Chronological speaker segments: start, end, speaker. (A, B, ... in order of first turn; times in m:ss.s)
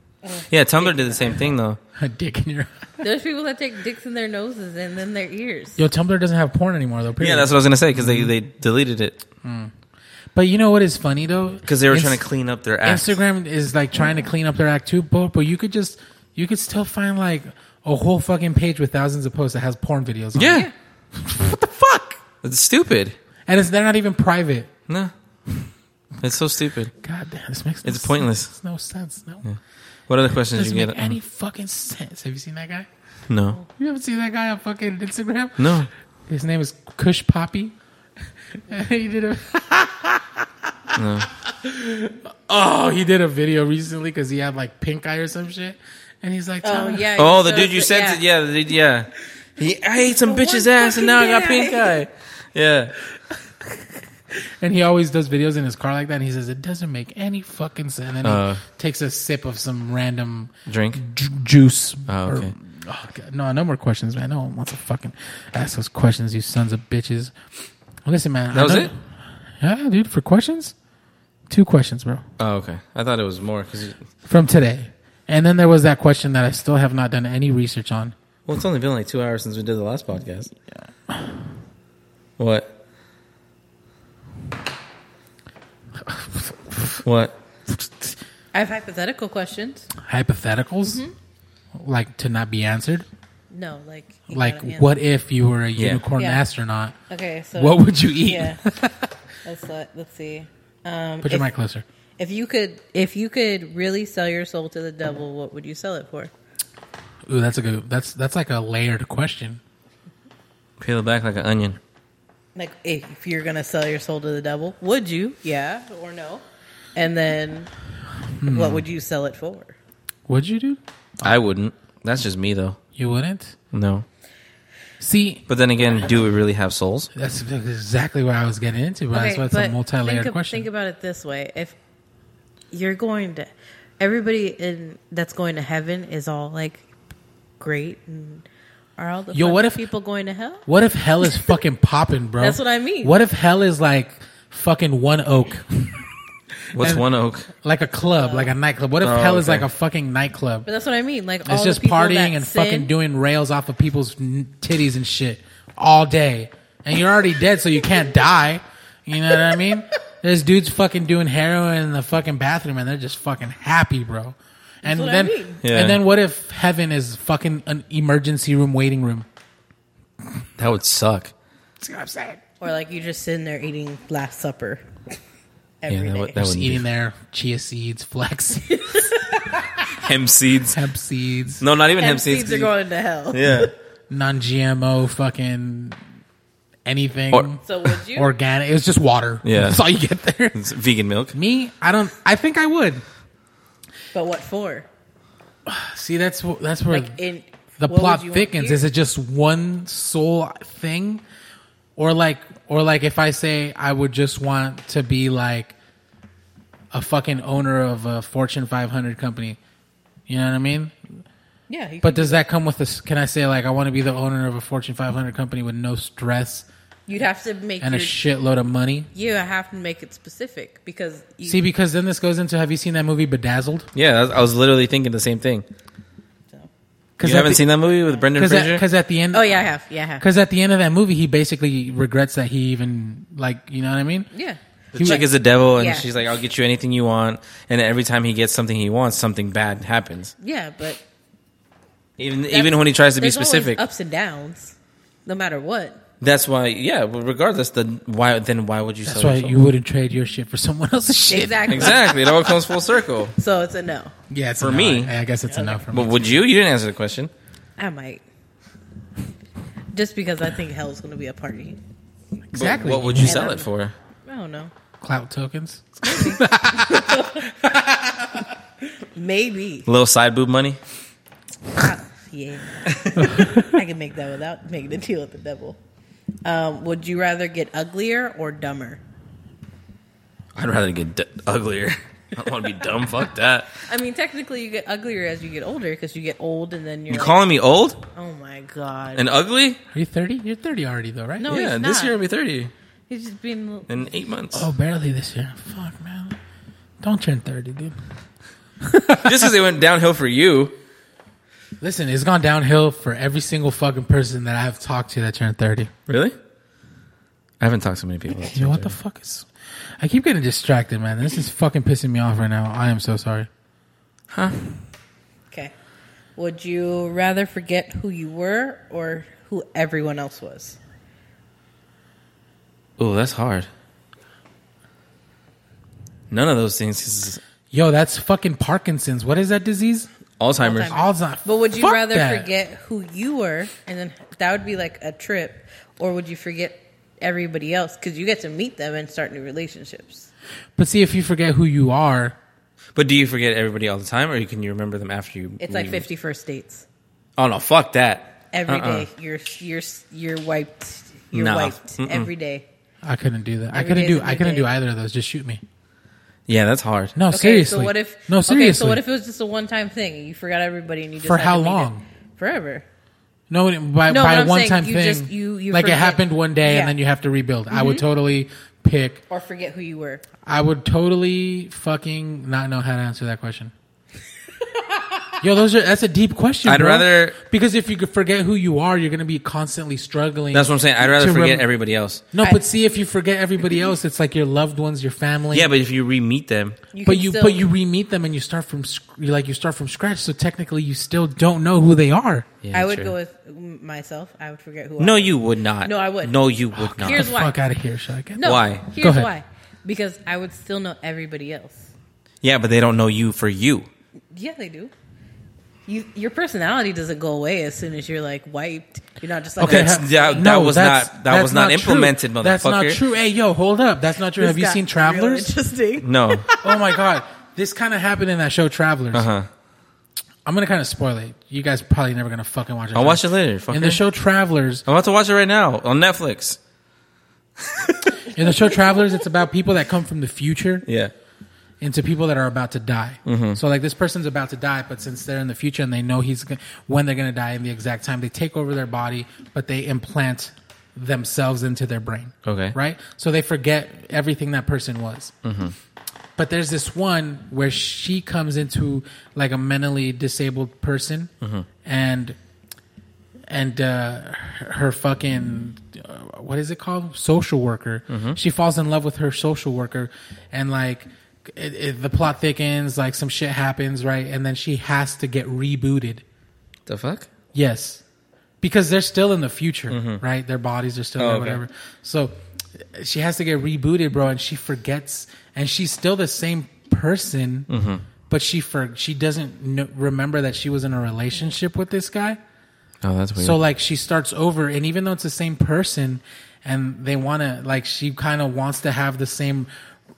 0:00.2-0:01.3 A
0:00.5-0:01.8 B
0:01.9-0:02.7 C
0:03.0-0:05.8 A
0:05.8-0:08.3 C
0:07.2-0:09.2 B
0:09.4-0:09.7 C
0:10.3-0:12.2 C
0:11.6-0:13.2 B
0:12.8-0:22.2 C
0:20.3-0:20.7 B
0:22.4-0:23.2 B
0:23.5-0:24.7 C
0:26.2-0:26.9 B
0:27.0-0:29.4 C
0:27.8-0:28.5 B
0:30.1-0:31.2 B
0:30.5-0:32.9 C
0:33.3-0:33.6 B
0:33.7-0:37.7 C
0:35.6-0:35.9 B
0:38.5-0:47.1 C
0:40.9-0:41.3 B
0:46.6-0:48.2 A
0:47.2-0:53.0 B
0:50.2-0:52.0 A
0:53.3-1:07.3 C
0:58.2-0:58.6 B
1:00.7-1:01.0 B
1:02.1-1:02.5 B
1:08.0-1:10.7 C
1:08.5-1:08.9 B
1:11.5-1:12.2 C
1:12.4-1:14.0 B
1:14.2-1:18.1 C
1:18.5-1:20.5 B
1:21.1-1:21.3 C
1:22.4-1:22.7 B
1:26.0-1:27.0 C
1:27.0-1:27.3 B
1:27.7-1:28.2 C
1:28.5-1:29.9 A
1:30.0-1:31.0 C
1:30.8-1:31.1 A
1:31.7-1:33.0 C
1:33.5-1:34.9 A
1:34.3-1:37.0 C
1:35.8-1:36.0 B
1:36.2-1:36.4 A
1:37.1-1:38.6 A
1:37.5-1:39.1 C
1:39.4-1:41.5 A
1:41.2-1:41.8 C
1:42.2-1:46.3 A
1:47.2-1:49.6 C
1:50.8-1:51.8 B
1:52.5-1:56.4 A
1:56.9-1:57.7 A
1:58.4-1:58.8 C
1:58.4-1:59.7 A
2:00.3-2:01.3 C
2:01.2-2:02.8 B
2:03.0-2:03.5 C
2:03.7-2:04.0 B
2:05.0-2:05.4 C
2:05.5-2:07.1 B
2:07.1-2:10.7 C
2:09.1-2:11.8 A
2:12.7-2:16.9 A
2:17.6-2:18.4 A
2:19.0-2:20.6 A
2:19.3-2:19.8 C
2:20.6-2:26.1 C
2:22.4-2:23.1 A
2:26.7-2:27.5 B
2:26.7-2:30.7 C
2:28.2-2:28.5 A
2:29.0-2:29.6 B
2:30.6-2:32.9 A
2:31.4-2:49.3 C
2:44.8-2:45.6 A
2:45.6-2:46.0 B
2:50.6-2:51.3 B
2:51.8-2:52.4 C
2:52.6-2:54.9 A
2:55.8-2:56.4 A
2:55.9-2:56.8 B
2:56.3-2:59.1 C
2:58.7-2:59.6 A
2:59.9-3:00.8 B
3:00.7-3:01.6 C
3:01.6-3:02.7 B
3:02.0-3:03.7 A
3:03.3-3:03.7 B
3:04.1-3:06.0 C
3:06.8-3:10.6 C
3:07.6-3:08.3 A
3:09.4-3:09.8 B
3:10.5-3:11.4 B
3:11.3-3:13.0 C
3:14.1-3:14.9 A
3:15.6-3:17.2 C
3:16.9-3:18.8 A
3:17.8-3:21.2 C
3:22.0-3:25.7 C
3:26.9-3:29.6 C
3:30.3-3:31.2 C
3:31.7-3:32.4 A
3:32.0-3:36.7 C
3:37.1-3:38.2 A
3:37.8-3:39.1 C
3:39.1-3:41.6 A
3:41.4-3:43.9 C
3:43.9-3:45.6 B
3:47.2-3:47.6 C
3:47.2-3:48.8 B
3:47.8-3:48.3 A
3:48.3-3:49.6 C
3:49.3-3:50.2 A
3:50.2-3:54.3 C
3:54.3-3:56.1 A
3:54.9-3:55.2 C
3:54.9-4:00.3 B
4:00.4-4:01.0 A
4:02.2-4:03.8 B
4:02.5-4:06.0 A
4:06.2-4:09.6 B
4:09.0-4:12.0 C
4:11.3-4:12.6 A
4:11.7-4:13.3 B
4:13.4-4:14.1 A
4:14.3-4:16.4 C
4:14.6-4:15.1 B
4:15.5-4:15.8 A
4:15.9-4:17.3 B
4:17.8-4:18.2 A
4:19.9-4:21.8 A
4:22.5-4:23.5 C
4:22.5-4:23.9 B
4:23.2-4:23.7 A
4:24.2-4:24.7 A
4:25.0-4:28.4 C
4:26.0-4:27.5 A
4:29.1-4:29.9 A
4:29.8-4:30.8 B
4:31.7-4:35.8 A
4:32.9-4:33.2 B
4:33.3-4:33.7 C
4:36.4-4:39.0 A
4:40.5-4:43.8 B
4:43.8-4:47.4 A
4:47.1-4:48.0 B
4:48.1-4:49.2 A
4:49.2-4:49.8 B
4:49.9-4:51.5 C
4:51.4-4:52.1 A
4:51.5-4:52.7 B
4:53.1-4:54.0 A
4:53.9-4:54.7 B
4:54.5-4:56.4 C
4:57.0-4:58.0 C
4:58.8-4:59.5 C
4:59.2-5:00.7 B
5:01.8-5:05.9 C
5:06.1-5:06.3 B
5:07.6-5:08.9 B
5:08.3-5:09.5 C
5:10.0-5:13.5 C
5:14.3-5:14.6 B
5:16.4-5:20.8 A
5:23.0-5:23.7 B
5:26.3-5:27.4 B
5:27.7-5:30.1 C
5:30.4-5:31.0 B
5:30.6-5:40.3 A
5:30.9-5:32.5 C
5:40.8-5:42.4 C
5:42.9-5:46.0 B
5:45.6-5:46.8 A
5:47.4-5:49.1 B
5:48.5-5:52.6 A
5:51.3-5:52.3 B
5:53.0-5:55.6 C
5:53.7-5:54.7 A
5:56.5-5:57.2 B
5:57.1-5:59.0 C
5:57.3-6:02.8 A
6:01.2-6:02.0 C
6:03.5-6:09.2 C
6:04.1-6:07.0 A
6:07.7-6:08.0 A
6:09.3-6:10.2 A
6:10.4-6:13.7 C
6:14.6-6:15.4 A
6:15.4-6:21.6 C
6:16.6-6:17.4 B
6:20.5-6:22.2 B
6:22.3-6:25.7 C
6:25.5-6:26.8 B
6:26.9-6:27.6 A
6:27.0-6:32.6 C
6:32.6-6:33.1 B
6:32.7-6:36.4 A
6:35.0-6:37.3 B
6:36.7-6:39.3 C
6:37.0-6:37.5 A
6:38.4-6:41.9 A
6:38.4-6:38.8 B
6:42.4-6:43.9 B
6:44.3-6:44.9 A
6:45.9-6:50.4 A
6:49.6-6:55.5 C
6:49.6-6:53.0 B
6:54.4-6:56.9 A
6:56.0-6:56.5 B
6:56.6-6:59.3 C
6:59.1-6:59.5 B
7:00.4-7:04.8 C
7:02.9-7:04.0 B
7:04.8-7:06.6 B
7:07.6-7:08.3 B
7:08.2-7:10.8 C
7:10.8-7:11.1 B
7:11.8-7:25.3 C
7:13.2-7:13.6 B
7:22.4-7:22.8 B
7:25.4-7:25.7 B
7:26.4-7:31.3 C
7:31.8-7:32.4 C
7:33.5-7:46.2 C
7:38.1-7:38.4 B
7:46.8-7:47.3 B
7:47.5-7:48.0 C
7:48.6-7:57.7 C
7:49.9-7:50.2 B
7:51.2-7:51.6 B
7:57.7-7:58.0 B
7:58.3-8:02.4 C
8:03.0-8:03.6 B
8:03.4-8:09.7 C